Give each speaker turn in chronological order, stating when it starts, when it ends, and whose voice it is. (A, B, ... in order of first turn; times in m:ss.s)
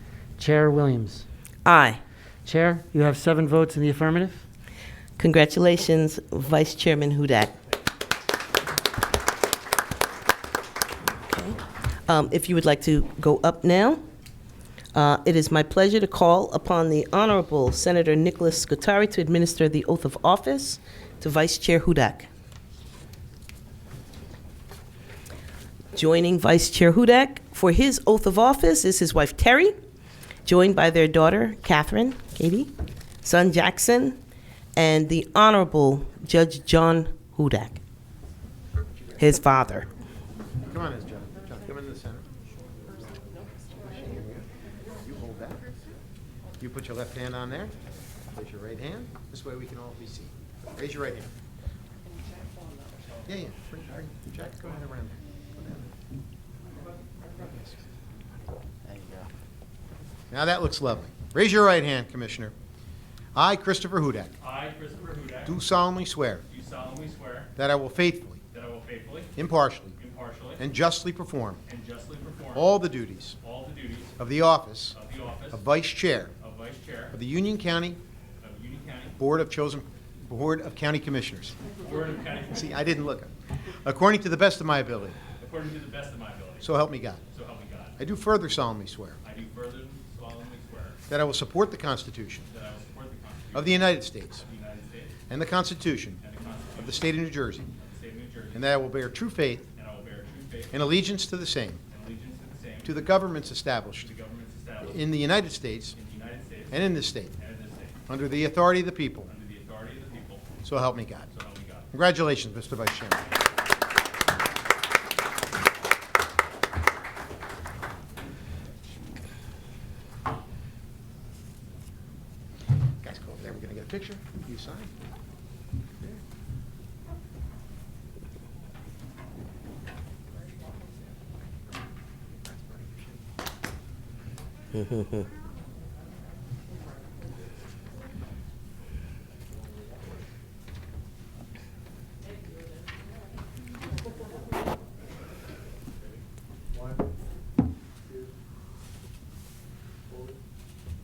0:00.4-0:01.2 A
0:01.6-0:02.0 B
0:02.4-0:04.4 A
0:05.2-0:07.6 B
0:11.2-0:14.0 B
0:14.9-0:22.3 B
0:25.9-0:29.7 B
0:30.4-0:32.7 B
0:33.2-0:34.2 B
0:34.8-0:37.8 B
0:39.2-0:39.9 B
0:40.7-0:42.2 C
0:43.7-0:46.0 C
0:46.6-0:47.8 C
0:48.3-0:51.3 C
0:53.2-0:55.9 C
0:57.4-0:57.7 C
1:00.3-1:02.5 C
1:03.3-1:04.3 C
1:04.4-1:05.6 D
1:05.4-1:06.4 C
1:06.5-1:07.5 D
1:07.6-1:08.4 C
1:08.5-1:09.3 D
1:09.4-1:10.0 C
1:10.0-1:10.6 D
1:10.6-1:11.6 C
1:11.6-1:12.8 D
1:12.5-1:13.4 C
1:13.4-1:14.2 D
1:14.2-1:15.0 C
1:14.9-1:15.6 D
1:15.5-1:16.3 C
1:16.4-1:17.2 D
1:17.1-1:18.0 C
1:18.4-1:19.2 D
1:19.2-1:21.6 C
1:21.8-1:22.8 D
1:22.5-1:23.3 C
1:23.8-1:25.2 C
1:25.4-1:26.7 D
1:26.6-1:27.2 C
1:27.3-1:28.0 D
1:28.0-1:29.2 C
1:29.2-1:31.0 D
1:31.1-1:32.5 C
1:32.5-1:35.1 D
1:33.5-1:34.4 C
1:35.3-1:36.2 C
1:36.2-1:37.2 D
1:36.8-1:37.7 C
1:37.7-1:38.7 D
1:38.5-1:39.7 C
1:39.7-1:40.8 D
1:40.7-1:41.8 C
1:41.9-1:43.0 D
1:42.8-1:44.1 C
1:44.0-1:45.1 D
1:44.8-1:46.0 C
1:45.9-1:48.0 D
1:46.7-1:47.4 C
1:48.1-1:49.3 C
1:49.3-1:50.5 D
1:50.6-1:51.3 C
1:51.3-1:51.9 D
1:51.9-1:53.3 C
2:03.0-2:04.9 C
2:14.8-2:15.2 B